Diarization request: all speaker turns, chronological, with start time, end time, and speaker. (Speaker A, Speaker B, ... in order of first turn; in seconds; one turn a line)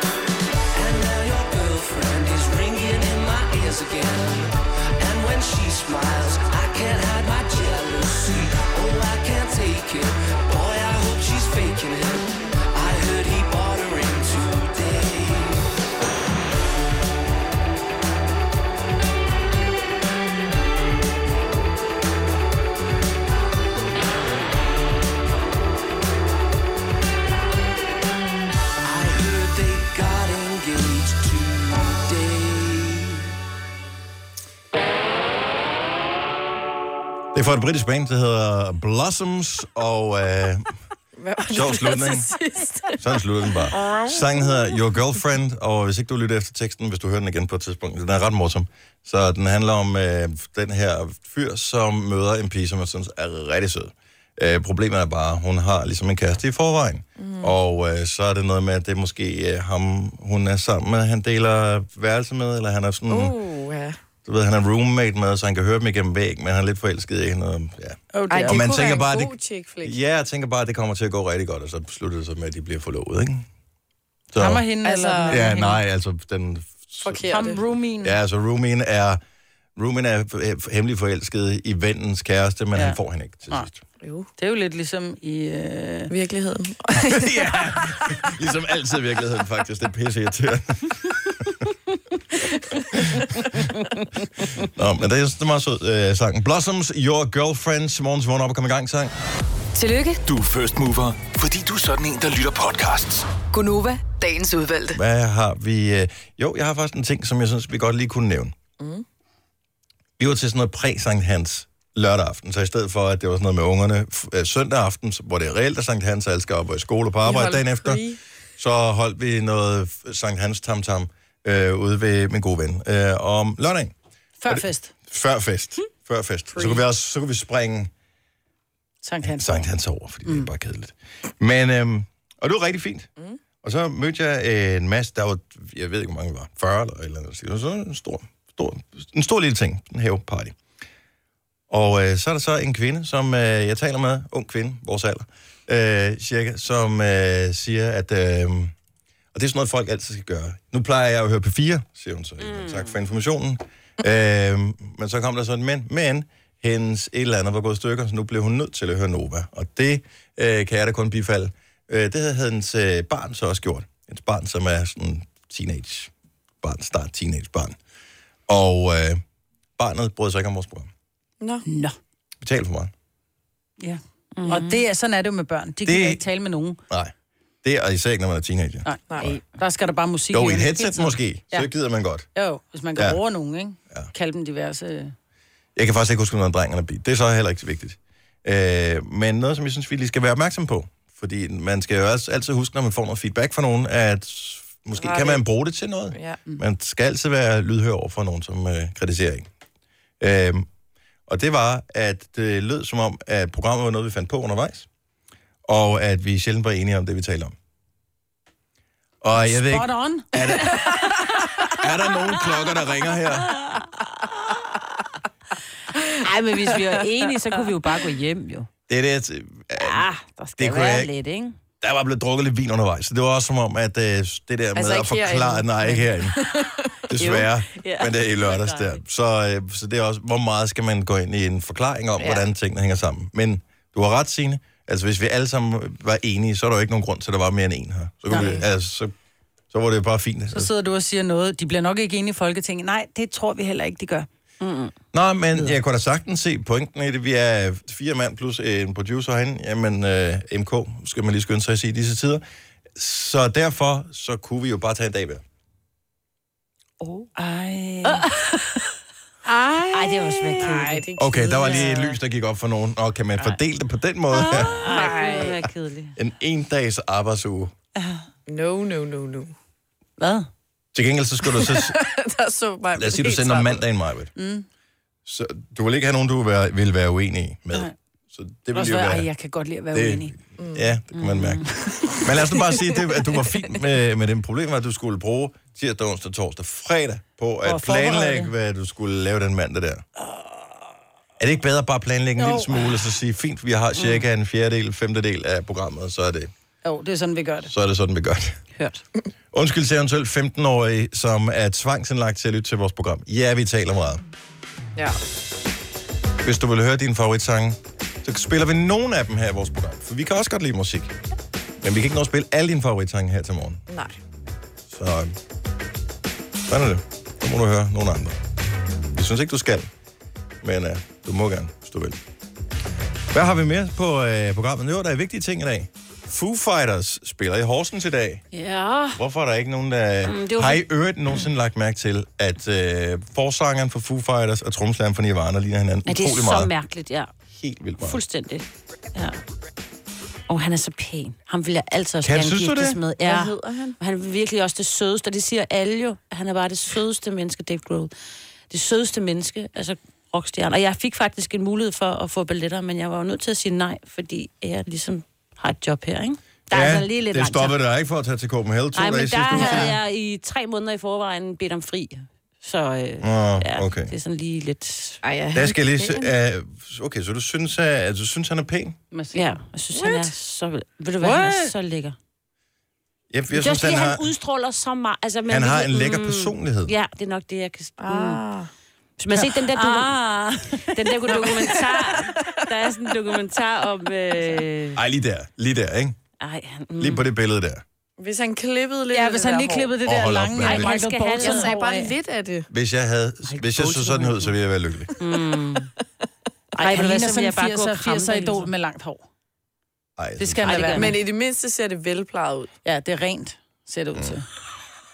Speaker A: 0.7-15.7
Speaker A: 28.8-33.3
Speaker B: 37.3-40.6
Speaker C: 41.2-44.8
Speaker B: 41.5-42.3
Speaker B: 43.0-63.4
Speaker C: 57.2-57.5
Speaker C: 63.1-64.0
Speaker B: 64.2-73.5
Speaker D: 68.1-68.8
Speaker C: 68.3-70.0
Speaker B: 74.3-74.7
Speaker D: 74.4-75.8
Speaker C: 74.8-75.5
Speaker B: 75.3-77.4
Speaker C: 77.0-77.6
Speaker D: 77.3-78.2
Speaker B: 78.0-79.2
Speaker B: 79.8-83.8
Speaker C: 84.0-84.3
Speaker D: 84.4-86.1
Speaker C: 86.1-87.5
Speaker B: 87.0-91.5
Speaker B: 92.9-93.3
Speaker B: 94.5-99.1
Speaker E: 99.8-100.2
Speaker F: 100.2-103.3
Speaker E: 103.5-105.0
Speaker B: 104.9-108.5
Speaker C: 108.8-109.0
Speaker B: 110.2-118.0
Speaker C: 117.2-118.2
Speaker B: 118.6-123.9
Speaker D: 124.4-124.9
Speaker B: 124.5-127.9
Speaker C: 126.5-126.8
Speaker D: 129.0-129.7
Speaker B: 129.2-133.1
Speaker D: 130.2-130.5
Speaker B: 133.6-140.6
Speaker B: 141.7-148.7
Speaker B: 149.3-166.1
Speaker G: 152.4-152.9
Speaker B: 166.6-167.8
Speaker B: 168.5-169.2
Speaker B: 169.8-170.9
Speaker C: 171.4-171.7
Speaker D: 171.7-172.0
Speaker B: 172.4-172.9
Speaker D: 173.8-176.8
Speaker G: 174.4-174.8
Speaker B: 175.8-176.2
Speaker B: 176.9-179.4
Speaker D: 178.8-181.7
Speaker C: 179.1-179.3
Speaker B: 180.3-182.3
Speaker D: 182.3-185.1
Speaker B: 185.8-199.5
Speaker C: 195.0-195.4
Speaker C: 196.1-196.4
Speaker B: 200.2-200.7
Speaker B: 201.3-204.9
Speaker B: 205.7-207.5
Speaker B: 209.2-211.1
Speaker D: 209.3-210.4
Speaker B: 211.7-213.6
Speaker G: 216.2-218.7
Speaker B: 218.9-220.1
Speaker G: 219.8-221.6
Speaker B: 220.6-221.1
Speaker B: 221.8-226.4
Speaker C: 224.8-226.9
Speaker B: 227.1-239.1
Speaker G: 227.2-229.0
Speaker C: 232.2-232.5
Speaker C: 238.3-238.6
Speaker B: 239.7-240.7
Speaker D: 240.5-244.3
Speaker G: 244.6-244.9
Speaker B: 245.1-252.4
Speaker B: 252.9-255.4
Speaker D: 257.4-258.3
Speaker G: 258.1-258.4
Speaker G: 259.9-261.0
Speaker D: 260.2-260.6
Speaker C: 260.6-262.0
Speaker B: 261.2-264.8
Speaker G: 261.6-262.0
Speaker G: 264.4-266.1
Speaker C: 264.6-265.7
Speaker B: 266.2-267.7
Speaker C: 268.5-269.5
Speaker D: 270.2-270.5
Speaker B: 270.9-272.0
Speaker C: 271.5-273.8
Speaker B: 272.9-274.3
Speaker D: 274.4-274.7
Speaker B: 275.2-279.3
Speaker D: 278.7-280.4
Speaker B: 279.9-290.0
Speaker C: 280.6-280.9
Speaker G: 281.3-281.6
Speaker C: 282.0-282.7
Speaker D: 287.6-288.5
Speaker D: 290.3-290.6
Speaker B: 291.4-296.5
Speaker D: 292.4-293.0
Speaker G: 294.0-294.2
Speaker D: 296.8-297.7
Speaker B: 297.7-298.6
Speaker B: 299.5-304.2
Speaker B: 306.4-311.1
Speaker B: 311.8-313.8
Speaker C: 313.9-314.2
Speaker B: 314.9-315.3
Speaker B: 316.7-318.4
Speaker B: 319.1-319.9
Speaker B: 320.6-322.2
Speaker B: 323.3-328.4
Speaker G: 328.5-329.2
Speaker B: 329.2-336.7
Speaker G: 330.2-331.3
Speaker G: 336.1-337.3
Speaker B: 337.5-338.2
Speaker G: 338.0-338.6
Speaker G: 340.5-348.1
Speaker B: 342.2-343.0
Speaker C: 343.2-344.0
Speaker G: 348.7-357.8
Speaker B: 356.7-360.0
Speaker G: 358.9-365.2
Speaker B: 363.2-364.1
Speaker C: 365.2-366.3
Speaker B: 365.5-369.0
Speaker D: 369.1-370.3
Speaker G: 369.3-372.2
Speaker D: 371.2-371.7
Speaker B: 373.3-374.3
Speaker G: 373.5-378.4
Speaker B: 375.5-376.9
Speaker C: 378.0-378.7
Speaker G: 379.2-385.0
Speaker D: 379.4-380.2
Speaker D: 380.9-381.5
Speaker C: 381.3-382.3
Speaker B: 384.9-386.2
Speaker G: 386.4-387.3
Speaker B: 387.0-387.8
Speaker C: 388.2-390.0
Speaker D: 389.1-392.1
Speaker B: 390.0-390.9
Speaker G: 390.6-391.9
Speaker C: 391.4-392.7
Speaker B: 392.7-395.1
Speaker D: 393.5-394.3
Speaker G: 395.2-395.9
Speaker C: 395.2-395.5
Speaker D: 396.8-399.2
Speaker G: 396.8-398.7
Speaker B: 400.2-401.0
Speaker D: 400.4-401.2
Speaker G: 400.6-401.2
Speaker C: 400.9-402.7
Speaker D: 402.9-404.4